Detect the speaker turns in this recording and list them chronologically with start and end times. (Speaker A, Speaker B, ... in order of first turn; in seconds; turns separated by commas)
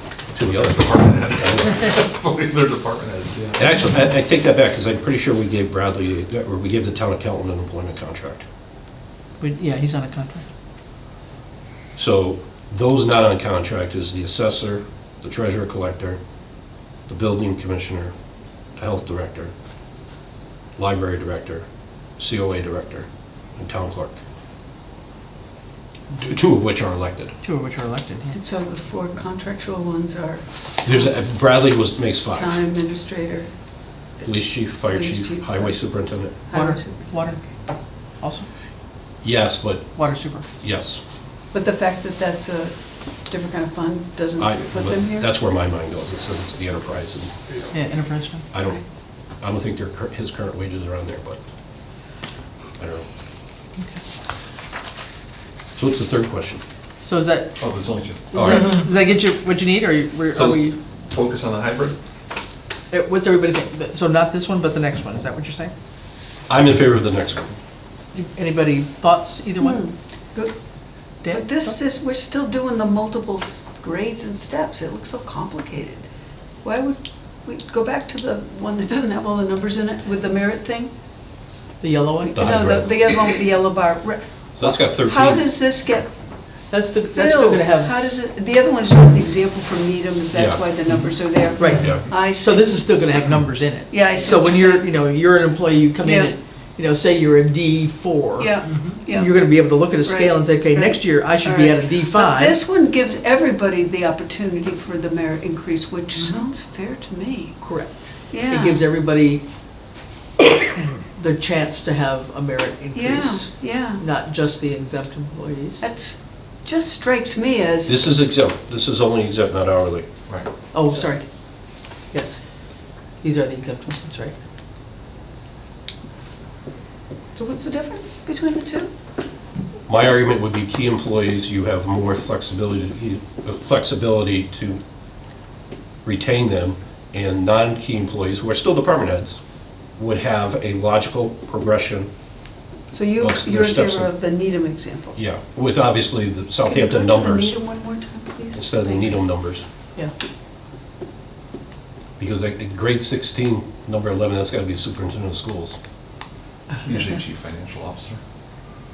Speaker A: 0.3-1.8, Speaker B: 0.3-3.7, Speaker A: 3.6-8.4, Speaker C: 9.4-10.5, Speaker A: 12.0-16.2, Speaker A: 17.1-18.1, Speaker A: 18.8-19.5, Speaker A: 20.8-21.6, Speaker A: 22.2-24.2, Speaker A: 26.1-27.4, Speaker C: 27.4-28.4, Speaker D: 28.3-30.4, Speaker A: 30.8-32.6, Speaker D: 32.3-33.5, Speaker A: 34.2-36.4, Speaker D: 34.8-35.6, Speaker D: 36.5-37.1, Speaker C: 36.5-37.4, Speaker C: 38.2-38.5, Speaker A: 39.2-40.0, Speaker C: 40.0-40.5, Speaker A: 40.6-41.0, Speaker D: 41.5-42.7, Speaker D: 43.3-45.3, Speaker A: 44.4-47.3, Speaker C: 47.7-48.5, Speaker A: 48.5-48.8, Speaker A: 49.4-51.4, Speaker A: 52.8-53.0, Speaker A: 55.8-56.6, Speaker C: 57.0-57.6, Speaker B: 57.6-58.3, Speaker C: 58.3-60.8, Speaker A: 58.3-58.8, Speaker B: 60.3-62.0, Speaker C: 62.9-65.7, Speaker A: 66.5-67.5, Speaker C: 68.1-69.8, Speaker D: 69.6-70.5, Speaker C: 71.2-71.7, Speaker D: 71.3-76.1, Speaker D: 76.6-80.9, Speaker C: 81.8-82.5, Speaker D: 82.2-86.1, Speaker A: 82.4-82.9, Speaker A: 84.6-85.4, Speaker C: 86.7-87.9, Speaker D: 87.1-92.7, Speaker A: 90.3-90.6, Speaker C: 91.6-98.6, Speaker A: 91.8-92.0, Speaker D: 93.9-94.9, Speaker D: 96.0-96.3, Speaker D: 98.4-99.5, Speaker C: 99.1-102.6, Speaker D: 100.0-107.6, Speaker C: 107.6-109.4, Speaker D: 108.3-108.8, Speaker C: 111.0-115.9, Speaker D: 112.9-114.0, Speaker D: 115.8-118.0, Speaker A: 117.9-120.1, Speaker C: 120.7-121.2, Speaker C: 122.1-122.4, Speaker C: 123.2-124.3, Speaker D: 127.4-128.9, Speaker A: 129.9-134.8, Speaker A: 136.1-139.4, Speaker A: 140.0-142.1, Speaker D: 142.9-145.2, Speaker A: 143.2-144.1, Speaker A: 145.2-147.6, Speaker D: 146.6-149.2, Speaker A: 148.5-149.6, Speaker A: 152.2-155.8, Speaker B: 156.8-158.2